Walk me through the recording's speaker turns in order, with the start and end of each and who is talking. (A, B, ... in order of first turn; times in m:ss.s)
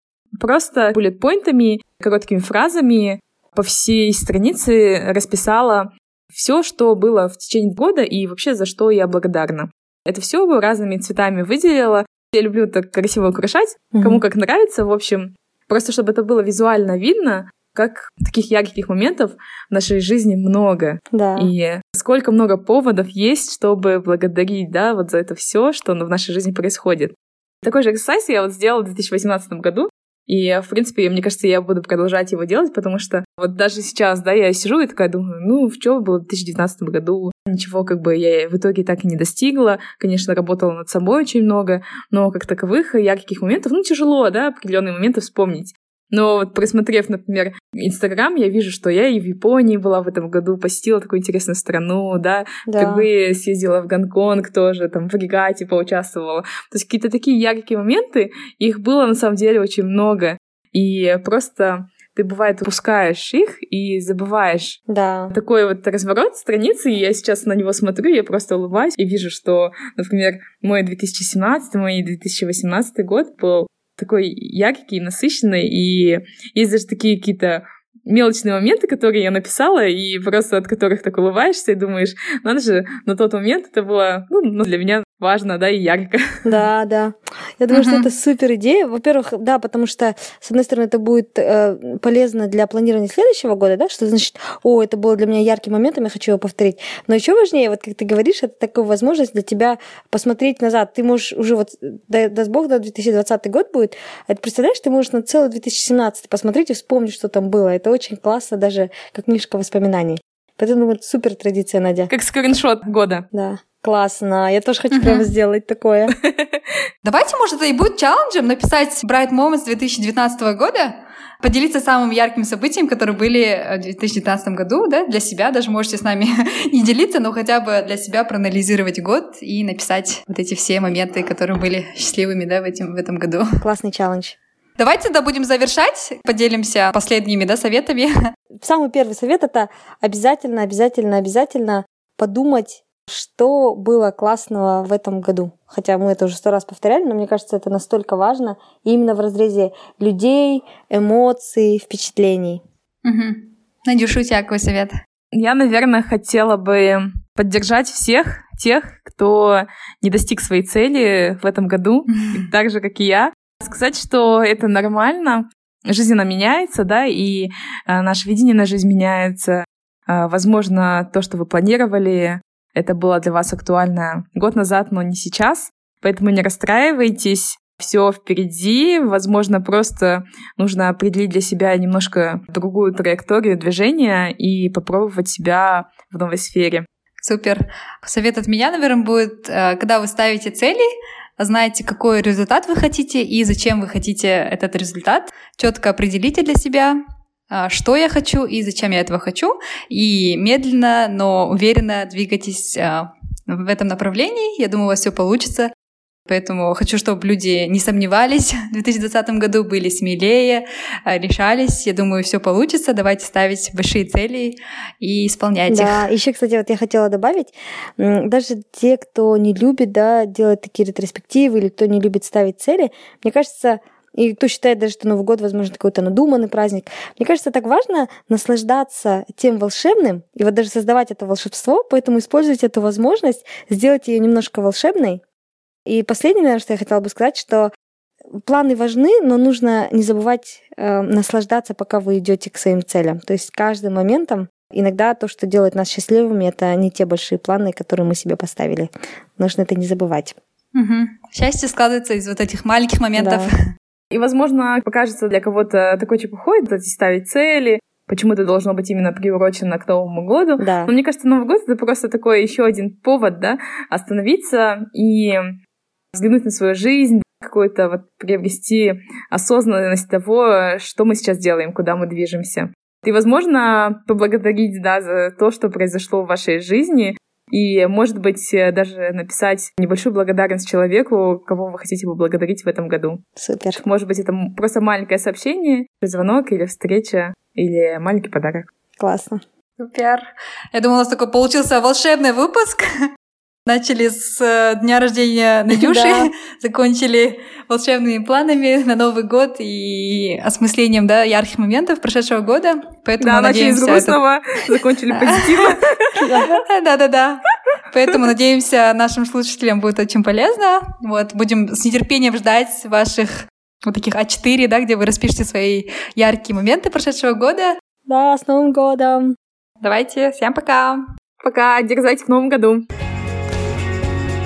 0:00.4-1:04.8 A
0:13.9-0:14.2 B
0:21.1-0:21.5 B
0:52.7-0:53.1 B
1:04.9-1:05.3 B
1:05.3-1:26.4 A
1:26.4-1:52.1 B
1:27.7-1:28.0 C
1:52.1-1:53.2 A
1:53.3-1:56.1 B
1:54.9-1:55.2 C
1:56.2-1:56.6 A
1:57.0-2:13.5 C
2:13.6-2:14.4 B
2:14.8-2:18.1 C
2:18.6-2:32.6 B
2:33.0-2:34.9 C
2:35.3-3:06.8 A
3:07.2-3:17.0 C
3:17.5-3:25.7 C
3:26.3-3:36.0 C
3:35.7-3:55.2 B
3:55.8-3:57.7 B
3:58.4-4:10.4 B
4:10.7-4:13.6 C
4:13.2-4:13.5 B
4:14.1-4:25.6 A
4:20.6-4:20.9 B
4:26.1-4:43.2 A
4:43.4-4:43.8 B
4:43.8-4:48.7 A
4:49.0-4:49.4 B
4:49.8-4:52.9 C
4:53.6-5:04.2 C
4:55.7-4:56.3 B
5:03.2-5:06.0 A
5:05.1-5:05.7 C
5:06.2-5:06.6 B
5:06.6-5:17.8 C
5:18.1-5:19.4 B
5:19.8-5:21.0 C
5:21.4-5:22.8 A